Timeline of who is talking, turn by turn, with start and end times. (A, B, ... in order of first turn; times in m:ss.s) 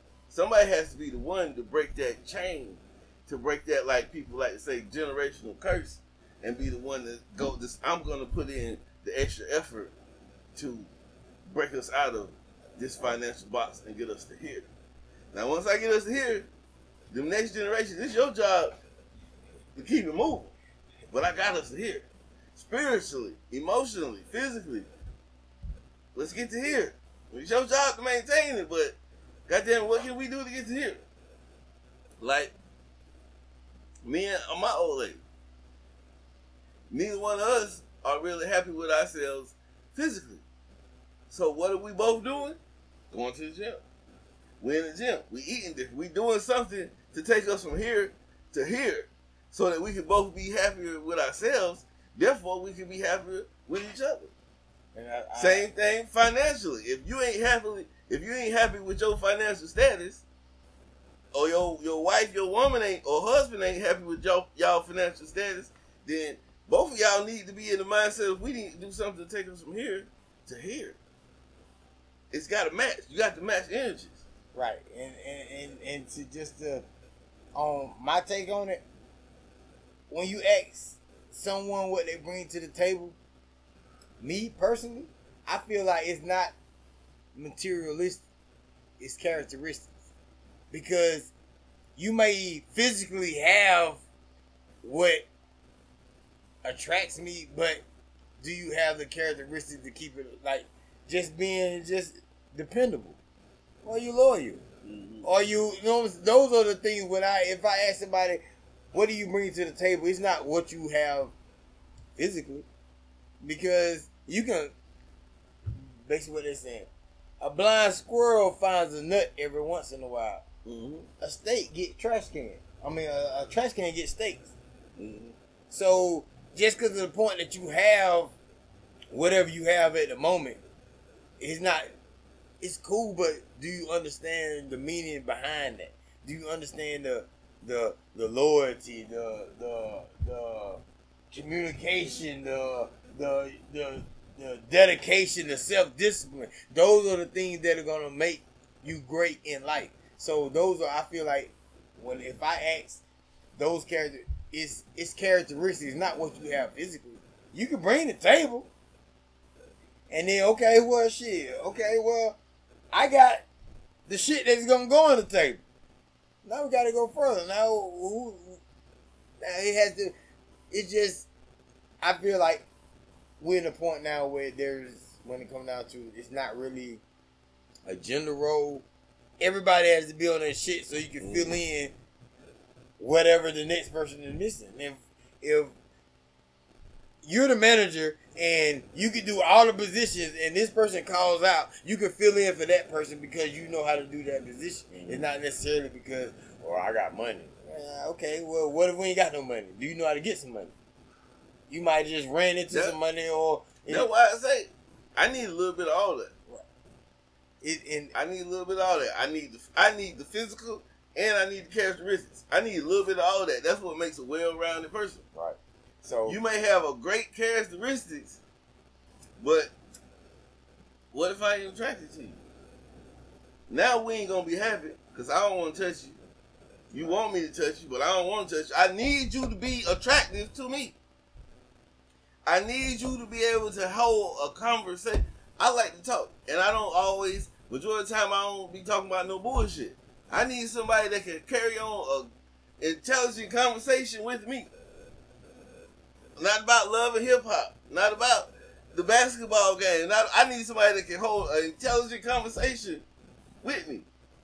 0:00.3-0:09.9 A
0:10.6-0:10.9 A
0:11.5-0:14.7 A
0:15.3-0:16.5 A
0:17.1-0:18.8 A
0:19.8-0:20.5 A
0:21.1-0:24.9 A
0:26.2-0:29.0 A
0:29.5-0:31.0 A
0:32.2-0:32.5 A
0:34.0-0:35.2 A
0:36.9-0:40.4 A
0:41.3-0:42.6 A
0:43.1-0:43.8 A
0:44.6-0:54.3 A
0:55.0-0:55.7 B
0:55.4-1:00.2 A
1:01.3-1:11.0 A
1:12.3-1:14.2 A
1:14.6-1:16.8 B
1:17.6-1:18.8 B
1:20.1-1:23.2 B
1:24.2-1:26.5 B
1:27.4-1:28.2 B
1:29.0-1:29.9 B
1:30.7-1:31.3 B
1:32.0-1:34.0 B
1:34.8-1:35.3 B
1:36.6-1:37.8 B
1:38.4-1:43.2 B
1:43.8-1:44.6 B
1:44.8-1:45.3 A
1:45.2-1:48.4 B
1:48.9-1:51.3 B
1:52.2-1:52.7 B
1:53.4-1:54.7 B
1:55.7-1:56.9 B
1:57.4-2:00.4 B
2:00.6-2:01.1 A
2:01.2-2:04.5 B
2:05.0-2:05.3 A
2:05.7-2:08.4 B
2:09.1-2:10.6 B
2:11.4-2:11.9 B
2:12.6-2:33.0 B
2:33.6-2:38.7 B
2:40.1-2:42.4 B
2:42.9-2:43.4 B
2:44.1-2:45.6 B
2:46.4-2:48.6 B
2:49.4-2:50.1 B
2:50.7-2:51.3 B
2:52.0-2:52.7 B
2:53.4-2:57.0 B
2:57.9-2:58.8 B
2:59.4-3:01.9 B
3:01.2-3:01.5 A
3:03.0-3:05.7 B
3:07.2-3:20.7 B
3:21.7-3:24.1 B
3:22.7-3:23.0 A
3:23.9-3:26.3 A
3:27.6-3:28.1 B
3:28.1-3:35.2 A
3:35.4-3:36.4 B
3:36.3-3:38.4 A
3:39.4-3:39.7 A
3:41.1-3:42.4 A
3:43.7-3:46.2 A
3:46.9-3:51.0 A
3:52.5-4:02.3 A
4:02.8-4:04.7 A
4:06.4-4:13.0 A
4:13.6-4:14.1 A